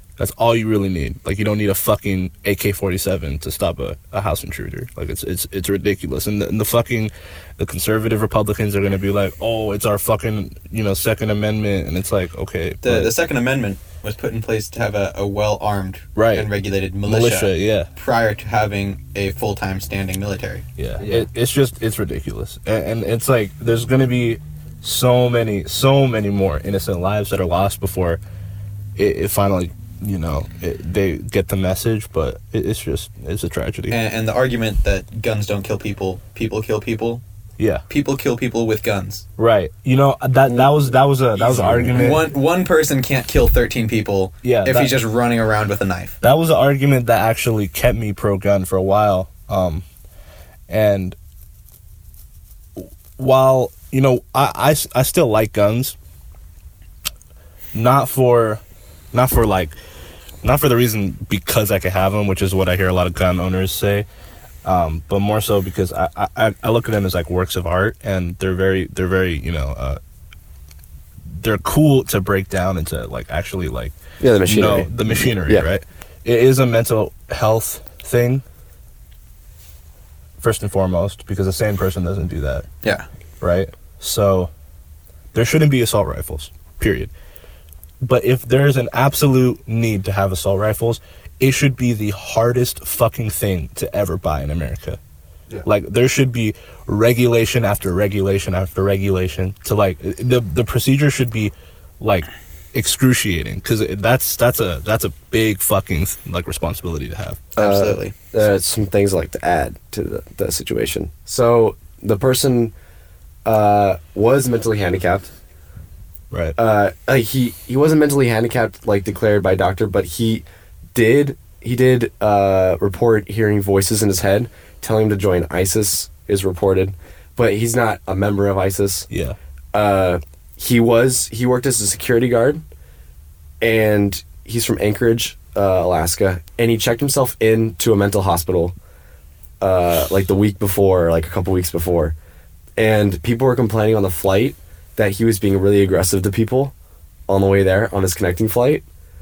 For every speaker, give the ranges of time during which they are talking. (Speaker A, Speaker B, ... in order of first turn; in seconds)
Speaker A: 0.2-13.1, 16.1-16.5, 17.1-17.9, 20.8-28.2, 29.0-34.0, 37.6-37.9, 39.4-42.2, 44.4-45.0, 46.2-49.8, 50.7-51.2, 52.8-56.0, 57.7-58.6, 59.1-59.7, 60.4-64.1, 64.6-70.0, 71.3-78.4, 80.4-82.7, 83.4-84.5, 85.3-87.1, 88.0-95.0, 95.6-107.4, 116.3-116.6, 129.1-129.4
Speaker B: 12.8-20.6, 33.9-37.2, 37.9-39.2, 41.4-46.2, 107.6-108.1
Speaker C: 74.2-74.9, 107.6-112.7, 113.5-115.3, 116.6-129.1, 129.7-132.6, 133.6-138.8, 139.6-142.2, 142.8-146.7, 147.3-148.8